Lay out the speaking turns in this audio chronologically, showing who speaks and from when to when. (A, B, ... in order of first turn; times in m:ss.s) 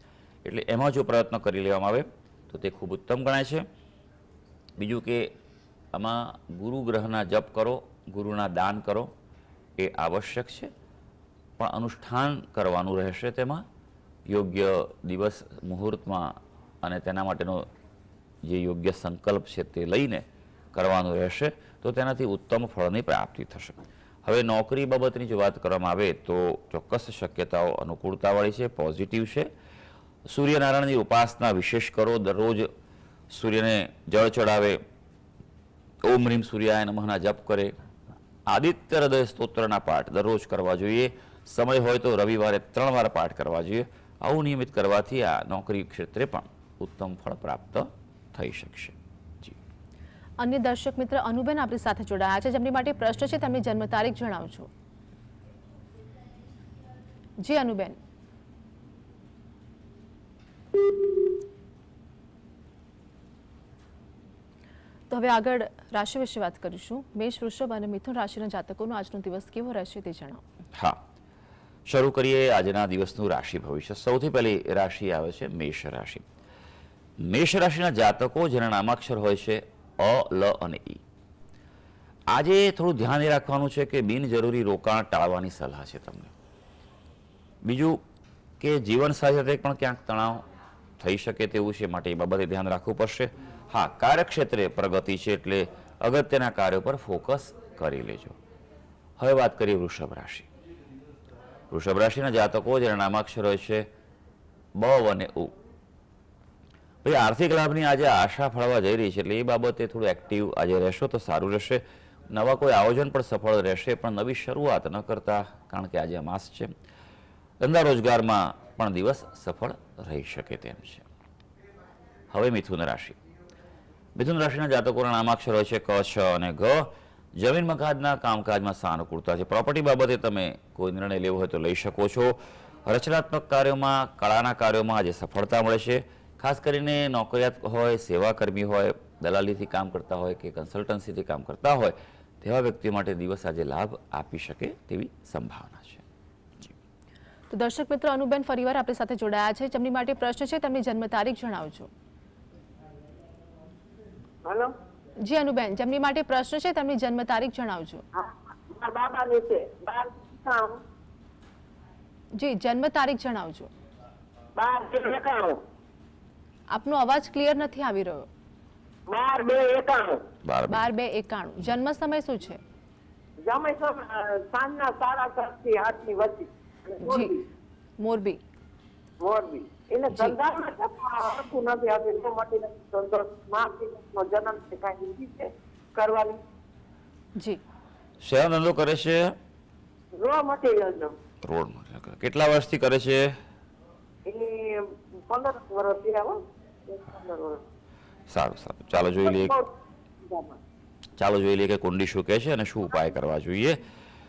0:00.4-0:03.6 A
0:04.8-0:05.3 A
0:05.9-0:09.1 A
0:09.8-0:10.7 A
0:11.6-0:13.6 A
0:14.3-0:17.6 A
0:18.4-0:29.5 A
0:30.2-0:32.7 A
0:33.3-0:34.8 A
0:36.0-0:37.7 A
0:38.5-0:49.6 A
0:50.4-0:54.7 B
0:57.4-0:58.0 B
1:05.1-1:10.4 B
1:11.9-1:16.2 A
1:17.2-1:21.0 A
1:22.3-1:26.3 A
1:27.6-1:28.0 A
1:28.6-1:30.4 A
1:31.0-1:38.4 A
1:39.2-1:40.5 A
1:41.7-1:43.8 A
1:44.8-1:45.5 A
1:47.0-1:56.7 A
1:57.6-2:01.0 A
2:02.3-2:03.2 A
2:04.2-2:26.0 A
2:27.5-2:31.9 B
2:34.4-2:34.7 C
2:35.2-2:38.0 B
2:38.1-2:40.8 C
2:42.3-2:43.7 B
2:44.6-2:45.6 C
2:46.7-2:48.2 B
2:49.1-2:50.2 C
2:50.4-2:50.9 A
2:50.7-2:52.6 B
2:53.4-2:57.4 C
2:57.0-2:57.4 B
2:58.0-2:58.4 B
2:59.2-3:06.4 C
3:08.2-3:09.3 A
3:10.1-3:11.2 C
3:11.4-3:13.3 A
3:14.2-3:17.6 C
3:18.3-3:19.6 A
3:19.0-3:19.7 C
3:20.2-3:20.6 C
3:21.2-3:23.9 A